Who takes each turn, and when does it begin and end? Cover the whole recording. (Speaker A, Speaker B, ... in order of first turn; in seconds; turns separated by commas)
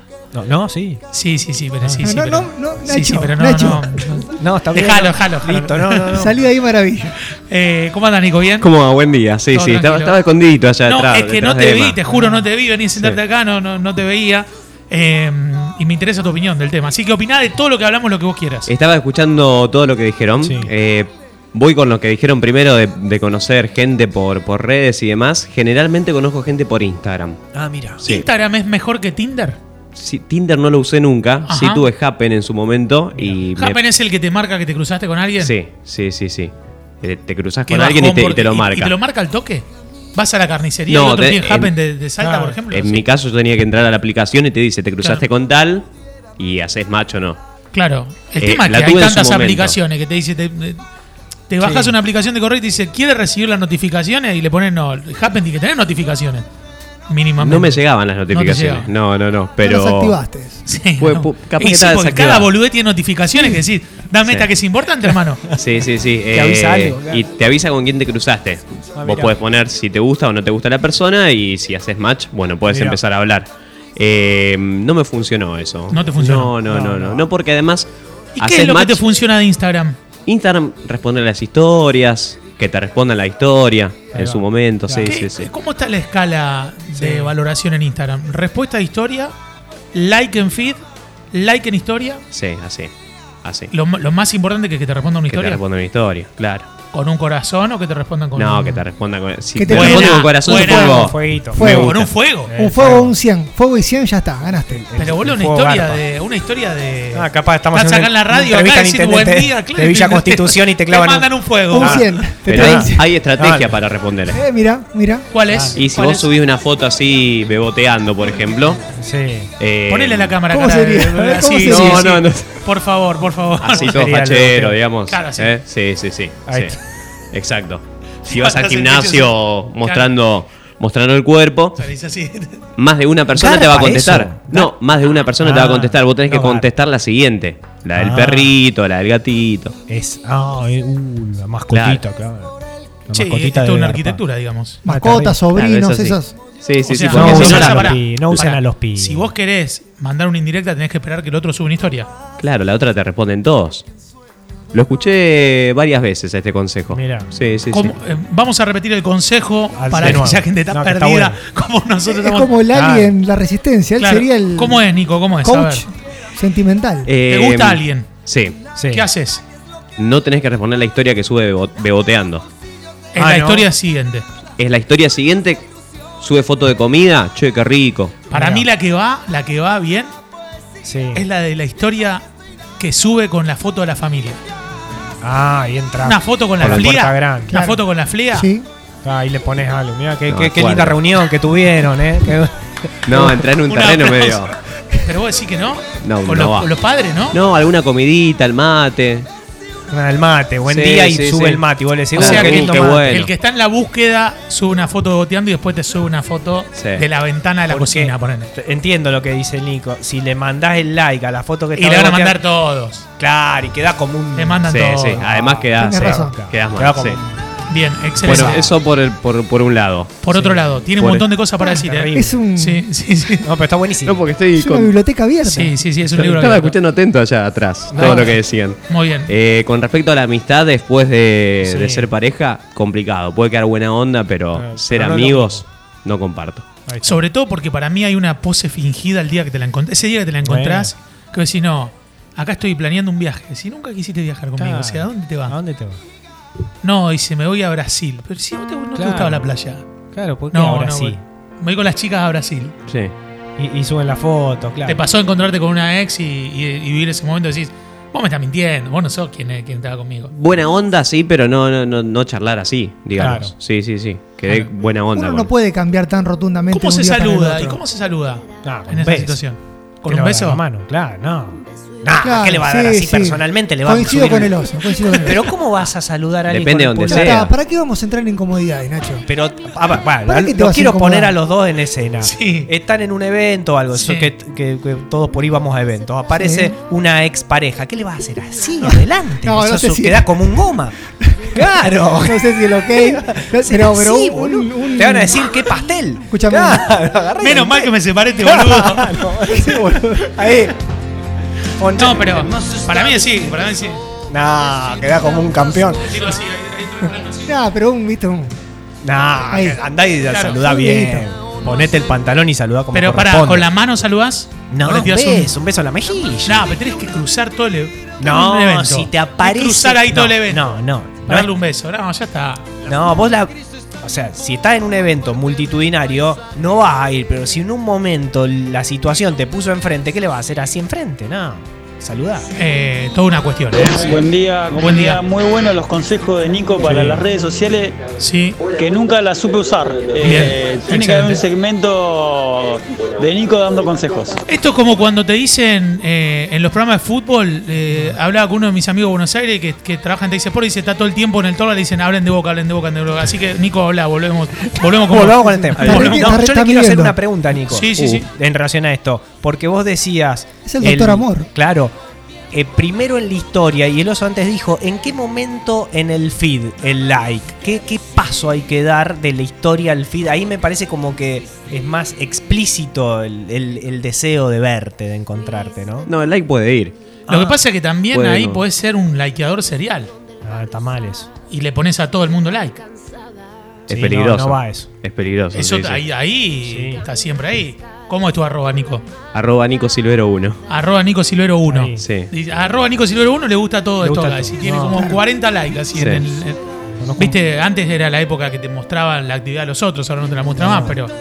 Speaker A: 0.3-1.0, Speaker B: 1.1-6.2, Speaker C: 2.0-4.2, Speaker A: 4.3-6.4, Speaker C: 6.1-7.2, Speaker B: 7.3-8.7, Speaker D: 8.6-12.0, Speaker B: 9.5-10.2, Speaker B: 10.9-18.7, Speaker A: 12.1-12.5, Speaker D: 18.7-27.4, Speaker A: 20.4-20.7, Speaker A: 27.5-28.1, Speaker B: 28.1-29.6, Speaker D: 30.0-33.8, Speaker B: 31.5-31.9, Speaker A: 33.1-33.4, Speaker B: 33.6-35.5, Speaker D: 35.4-38.9, Speaker B: 37.7-43.0, Speaker D: 40.9-41.7, Speaker A: 42.2-42.6, Speaker D: 42.7-45.9, Speaker D: 46.4-47.4, Speaker B: 47.7-50.8, Speaker D: 48.4-49.8, Speaker B: 51.5-56.5, Speaker A: 51.6-52.0, Speaker B: 57.1-58.9, Speaker D: 57.4-60.2, Speaker C: 59.6-60.6, Speaker B: 60.7-65.5, Speaker D: 61.0-62.5, Speaker D: 65.6-77.9, Speaker A: 66.3-67.3, Speaker A: 69.0-69.3, Speaker A: 72.7-73.0, Speaker B: 75.9-76.5, Speaker A: 76.7-77.3, Speaker B: 78.4-80.0, Speaker D: 78.4-79.0, Speaker D: 80.3-85.5, Speaker A: 84.1-85.2, Speaker B: 85.1-89.3, Speaker A: 87.0-87.3, Speaker B: 89.9-90.8, Speaker B: 91.3-92.2, Speaker D: 92.3-92.9, Speaker D: 93.4-93.7, Speaker B: 93.7-95.6, Speaker D: 95.3-96.7, Speaker B: 96.9-98.8, Speaker D: 98.4-101.8, Speaker C: 99.6-104.9, Speaker B: 99.7-102.5, Speaker A: 100.8-103.1, Speaker A: 104.7-106.0, Speaker B: 105.0-112.3, Speaker A: 107.1-113.8, Speaker C: 111.7-113.1, Speaker D: 112.5-114.4, Speaker C: 114.3-115.3, Speaker B: 115.3-116.3, Speaker A: 115.5-115.8, Speaker D: 115.7-118.8, Speaker A: 118.9-119.5, Speaker D: 119.6-120.4, Speaker B: 119.9-124.0, Speaker C: 120.5-122.1, Speaker D: 121.7-122.5, Speaker D: 123.6-126.8, Speaker A: 123.7-124.8, Speaker B: 125.1-125.6, Speaker A: 126.5-126.8, Speaker D: 127.3-131.8, Speaker B: 128.2-130.1, Speaker B: 131.8-132.6, Speaker D: 132.8-139.8, Speaker A: 133.3-134.8, Speaker A: 135.4-136.7, Speaker A: 137.9-138.5, Speaker A: 139.9-142.6, Speaker D: 141.7-142.0, Speaker A: 143.1-144.2, Speaker B: 143.1-144.8, Speaker C: 144.8-146.3, Speaker A: 144.9-145.4, Speaker D: 145.5-148.0, Speaker B: 146.8-152.1, Speaker A: 147.1-149.3, Speaker D: 152.4-153.8, Speaker D: 154.7-157.9, Speaker A: 156.9-157.3, Speaker B: 157.7-162.5, Speaker A: 159.8-161.4, Speaker C: 162.1-164.8, Speaker A: 162.7-163.1, Speaker B: 164.0-165.8, Speaker C: 165.4-167.1, Speaker D: 167.1-168.6, Speaker B: 167.3-168.1, Speaker A: 168.8-169.1, Speaker B: 168.9-169.4, Speaker D: 170.0-172.4, Speaker B: 173.1-174.2, Speaker A: 173.2-173.7, Speaker D: 174.6-175.7, Speaker D: 176.2-178.3, Speaker B: 178.3-180.1, Speaker A: 178.3-178.7, Speaker A: 180.8-181.2, Speaker B: 181.1-182.2, Speaker B: 182.8-184.4, Speaker A: 185.2-187.5, Speaker B: 186.0-188.5, Speaker C: 187.5-187.8, Speaker C: 188.3-188.7, Speaker A: 189.0-193.5, Speaker D: 190.3-191.0, Speaker D: 193.1-194.5, Speaker B: 193.7-194.5, Speaker B: 195.0-197.4, Speaker D: 196.0-196.7, Speaker D: 197.3-199.3, Speaker A: 199.9-203.3, Speaker D: 200.7-203.3, Speaker B: 202.2-208.5, Speaker D: 206.8-207.0, Speaker A: 207.7-212.4, Speaker B: 211.8-213.1, Speaker A: 213.2-217.3, Speaker B: 214.3-215.2, Speaker D: 214.7-217.2, Speaker C: 215.8-216.4, Speaker B: 217.7-218.7, Speaker A: 218.2-218.7, Speaker D: 218.2-220.2, Speaker B: 220.2-223.5, Speaker A: 220.3-220.8, Speaker D: 221.0-221.2, Speaker C: 221.6-222.8, Speaker A: 221.7-222.4, Speaker A: 223.4-224.3, Speaker D: 224.1-224.9, Speaker C: 224.6-225.7, Speaker A: 225.4-226.4, Speaker B: 225.5-226.8, Speaker D: 226.2-236.7, Speaker A: 227.9-228.4, Speaker B: 228.0-228.3, Speaker B: 228.9-229.3, Speaker A: 231.6-232.1, Speaker A: 234.5-235.7, Speaker A: 236.9-237.2, Speaker B: 237.0-245.6, Speaker A: 240.4-240.9, Speaker A: 244.6-246.0, Speaker B: 246.8-249.8, Speaker A: 248.9-249.5, Speaker A: 250.1-251.2, Speaker B: 250.5-252.8, Speaker D: 252.9-253.1, Speaker A: 253.6-255.0, Speaker B: 254.9-260.3, Speaker D: 260.3-265.5, Speaker A: 263.2-263.5, Speaker C: 265.1-267.8, Speaker B: 266.7-270.6, Speaker A: 268.6-269.4, Speaker A: 270.1-277.5, Speaker C: 272.2-275.5, Speaker D: 276.5-277.5, Speaker C: 277.1-279.3, Speaker A: 279.3-291.0, Speaker C: 280.3-281.3, Speaker B: 282.2-282.7, Speaker B: 283.9-284.3, Speaker C: 286.3-286.7, Speaker C: 288.9-290.6, Speaker C: 291.3-291.7, Speaker A: 291.5-300.8, Speaker C: 292.2-295.6, Speaker C: 296.3-297.0, Speaker B: 297.4-299.8, Speaker C: 299.5-300.3, Speaker A: 301.8-303.0, Speaker B: 301.9-304.0, Speaker A: 304.3-306.2, Speaker B: 306.1-307.5, Speaker C: 307.5-308.6, Speaker A: 309.0-313.7, Speaker C: 309.5-309.8, Speaker B: 310.3-310.6, Speaker C: 310.6-311.2, Speaker B: 312.9-315.5, Speaker A: 314.7-316.7, Speaker B: 316.5-322.7, Speaker A: 318.2-321.5, Speaker A: 322.9-332.5, Speaker B: 332.6-334.2, Speaker E: 333.7-338.0, Speaker B: 334.8-335.2, Speaker A: 336.8-337.2, Speaker B: 338.2-338.6, Speaker E: 338.6-344.4, Speaker B: 340.2-341.4, Speaker B: 344.5-356.4, Speaker A: 347.9-348.2, Speaker A: 355.0-361.9, Speaker C: 355.7-357.2, Speaker B: 357.7-358.3, Speaker C: 360.7-361.5, Speaker A: 362.5-376.1, Speaker D: 376.1-377.0, Speaker A: 377.3-377.6, Speaker B: 377.3-380.1, Speaker D: 378.1-378.6, Speaker A: 380.4-381.3, Speaker B: 381.5-382.8, Speaker D: 383.9-386.0, Speaker A: 383.9-384.9, Speaker B: 385.5-389.1, Speaker A: 386.7-387.1, Speaker D: 389.3-390.6, Speaker B: 390.7-396.6, Speaker A: 391.7-392.0, Speaker D: 392.0-392.3, Speaker A: 394.0-395.1, Speaker D: 396.0-396.2, Speaker A: 397.0-397.4, Speaker B: 397.2-401.1, Speaker A: 400.6-401.0